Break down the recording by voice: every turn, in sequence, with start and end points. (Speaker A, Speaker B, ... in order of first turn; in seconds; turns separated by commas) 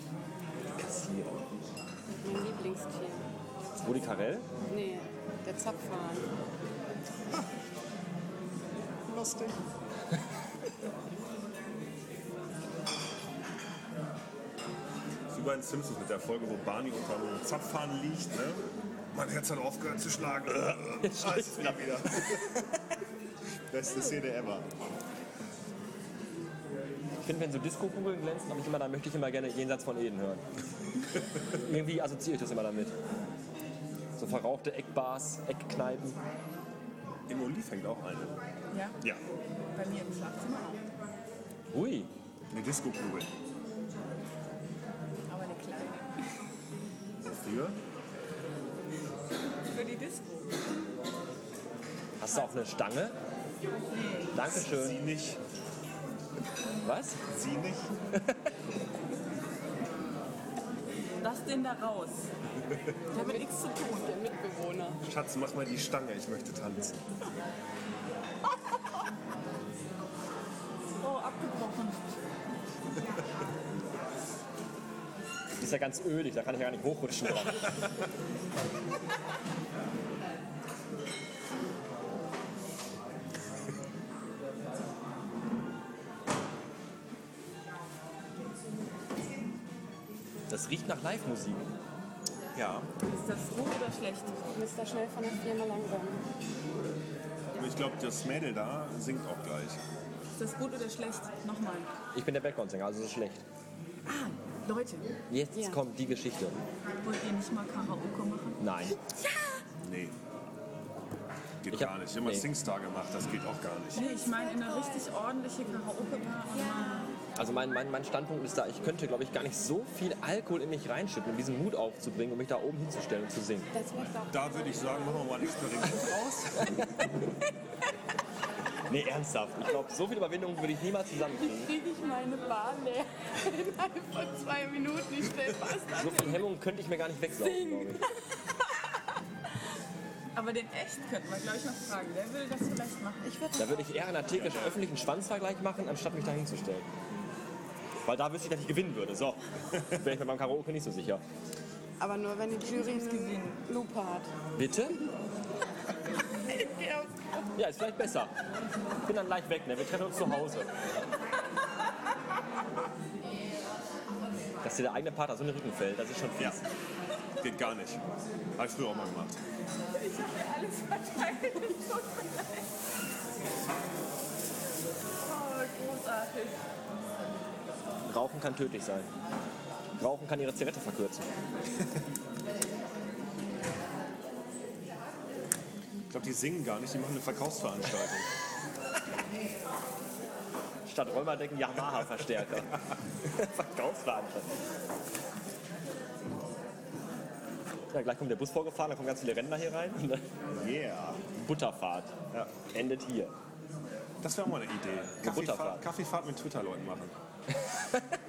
Speaker A: 0.8-1.4, Speaker B: 2.2-3.3, Speaker A: 3.8-4.5, Speaker B: 4.7-6.3, Speaker C: 9.1-9.5, Speaker C: 15.3-18.6, Speaker C: 19.1-22.5, Speaker A: 21.0-22.6, Speaker C: 23.7-24.7, Speaker D: 23.9-24.1, Speaker A: 27.2-30.4, Speaker A: 31.5-33.0, Speaker A: 34.2-36.2, Speaker C: 37.3-38.4, Speaker D: 38.7-39.0, Speaker D: 39.8-40.9, Speaker A: 41.7-42.1, Speaker C: 42.5-43.3, Speaker D: 45.3-46.2, Speaker C: 47.2-47.8, Speaker D: 49.7-50.5, Speaker A: 52.2-53.2, Speaker D: 52.3-52.6, Speaker D: 53.9-54.5, Speaker A: 54.3-55.0, Speaker C: 54.4-55.4, Speaker A: 56.8-57.2, Speaker C: 57.3-57.9, Speaker A: 58.1-58.5, Speaker D: 61.2-62.3, Speaker D: 63.1-64.2, Speaker B: 63.1-65.0, Speaker C: 65.0-67.0, Speaker D: 71.0-72.2, Speaker A: 75.6-77.8, Speaker A: 90.5-91.7, Speaker C: 92.5-92.9, Speaker D: 93.0-94.4, Speaker B: 94.5-96.2, Speaker C: 97.5-99.8, Speaker D: 100.4-101.9, Speaker A: 102.1-103.4, Speaker D: 104.1-105.1, Speaker A: 105.3-106.6, Speaker B: 105.5-105.8, Speaker D: 107.0-108.6, Speaker A: 108.6-109.0, Speaker C: 109.8-110.2, Speaker C: 111.6-114.0, Speaker A: 111.7-112.5, Speaker B: 113.9-115.1, Speaker D: 114.0-117.1, Speaker B: 116.6-117.1, Speaker A: 117.4-123.7, Speaker B: 123.7-125.2, Speaker C: 124.3-126.8, Speaker A: 128.9-131.7, Speaker B: 131.4-136.4, Speaker A: 136.0-138.1, Speaker B: 137.4-138.1, Speaker D: 140.3-143.5, Speaker B: 143.2-143.9, Speaker A: 143.6-146.9, Speaker C: 144.3-144.8, Speaker A: 148.0-151.2, Speaker B: 152.0-154.3, Speaker D: 152.6-153.6, Speaker A: 154.6-155.0, Speaker B: 156.5-157.4, Speaker A: 157.6-158.3, Speaker A: 159.0-160.7, Speaker A: 164.6-166.6, Speaker C: 167.4-168.0, Speaker C: 168.6-169.4, Speaker D: 169.9-172.7, Speaker D: 175.2-176.6, Speaker A: 178.1-179.1, Speaker A: 180.0-181.3, Speaker C: 186.1-188.3, Speaker A: 190.9-194.6, Speaker A: 197.9-200.3, Speaker C: 200.5-201.2, Speaker A: 201.3-203.3, Speaker C: 204.2-207.1, Speaker A: 205.2-205.9, Speaker A: 207.8-208.0